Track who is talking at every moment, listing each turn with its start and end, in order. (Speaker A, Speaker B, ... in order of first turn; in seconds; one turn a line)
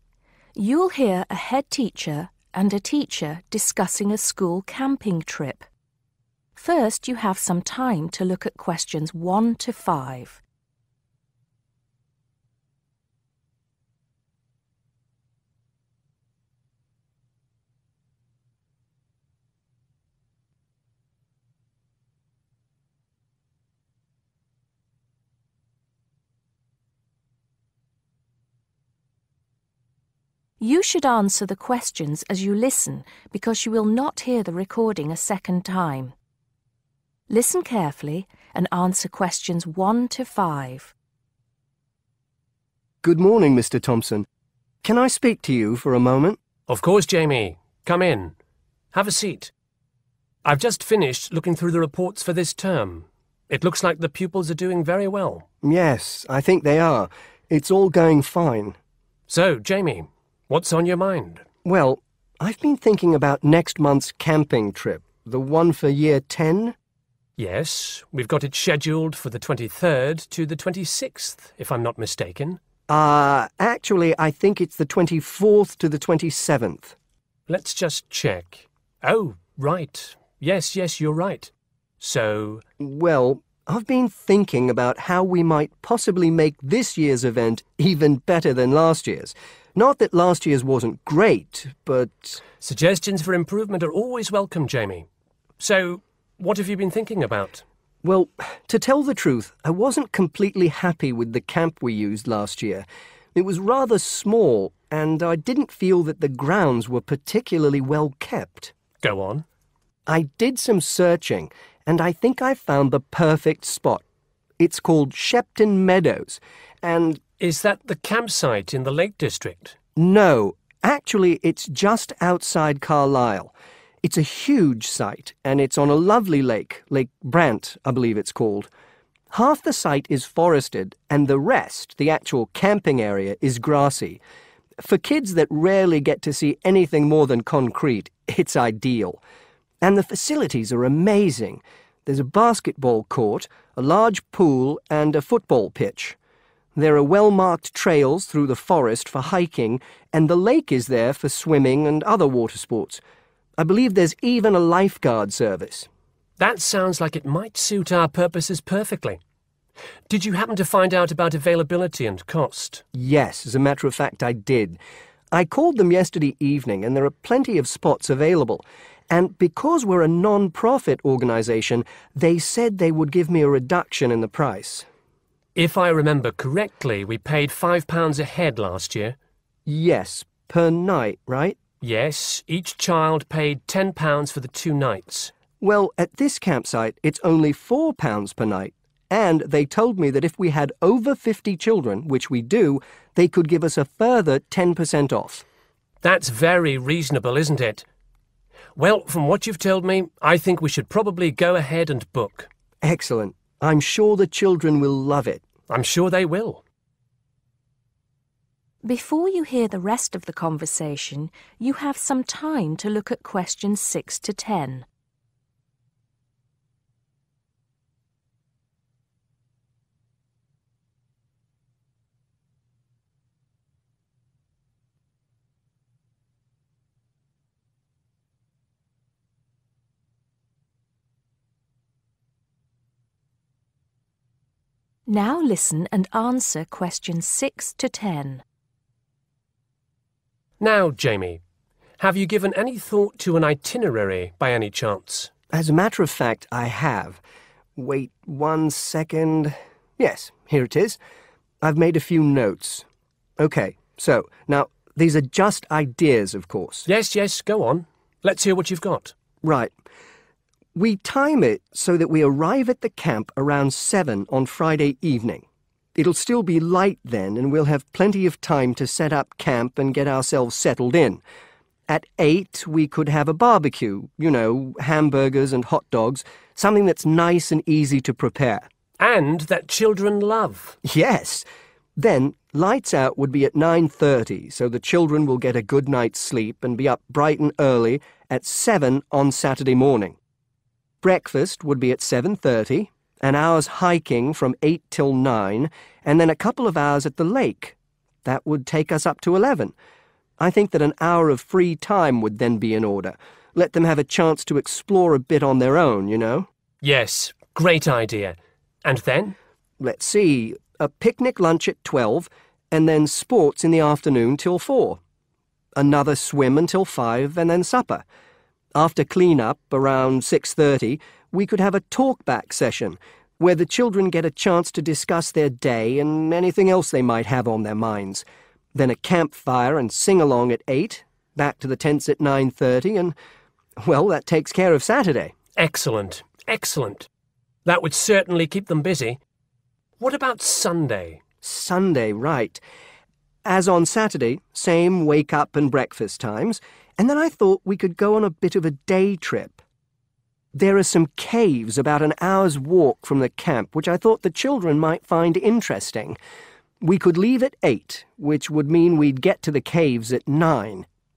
Speaker A: 0.5-5.7
Speaker A: 6.5-10.4
Speaker A: 30.6-36.1
Speaker A: 37.3-40.9
Speaker B: 43.0-44.3
Speaker B: 44.8-46.4
Speaker C: 46.7-48.3
Speaker C: 48.9-49.5
Speaker C: 50.5-55.5
Speaker B: 55.6-58.8
Speaker C: 59.3-61.5
Speaker B: 61.6-66.8
Speaker C: 67.4-72.6
Speaker B: 72.9-77.0
Speaker C: 77.5-82.6
Speaker B: 82.8-92.4
Speaker C: 92.6-95.1
Speaker C: 95.6-97.6
Speaker B: 98.0-108.7
Speaker C: 109.0-109.5
Speaker B: 110.1-114.0
Speaker B: 114.6-117.2
Speaker C: 117.4-119.8
Speaker B: 120.0-128.7
Speaker B: 129.3-134.2
Speaker B: 134.8-139.2
Speaker B: 139.8-146.2
Speaker B: 146.8-153.0
Speaker B: 153.6-155.9
Speaker C: 156.4-159.2
Speaker C: 160.1-162.8
Speaker B: 162.9-164.8
Speaker B: 165.3-174.8
Speaker C: 175.6-179.2
Speaker B: 179.7-181.6
Speaker C: 181.8-185.3
Speaker B: 185.6-195.4
Speaker C: 196.0-197.8
Speaker C: 198.8-202.5
Speaker B: 202.8-205.5
Speaker C: 205.7-206.6
Speaker A: 208.8-214.8
Speaker A: 235.1-238.4
Speaker C: 240.6-241.4
Speaker C: 242.0-245.3
Speaker B: 245.5-247.2
Speaker B: 247.8-251.0
Speaker B: 251.6-252.8
Speaker B: 253.4-256.9
Speaker C: 256.9-259.1
Speaker B: 259.4-259.7
Speaker B: 260.7-265.4
Speaker B: 265.9-271.2
Speaker B: 271.9-278.7
Speaker C: 279.0-280.8
Speaker B: 280.8-281.4
Speaker B: 282.0-290.1
Speaker B: 291.0-299.7
Speaker B: 300.4-306.5
Speaker C: 306.8-309.3
Speaker B: 309.8-315.0
Speaker B: 315.8-318.0
Speaker B: 318.7-333.1
Speaker B: 333.8-335.3
Speaker C: 335.6-337.1
Speaker C: 337.6-339.2
Speaker C: 340.0-341.2
Speaker B: 341.4-342.6
Speaker B: 343.4-349.6
Speaker B: 350.5-356.2
Speaker B: 356.8-360.9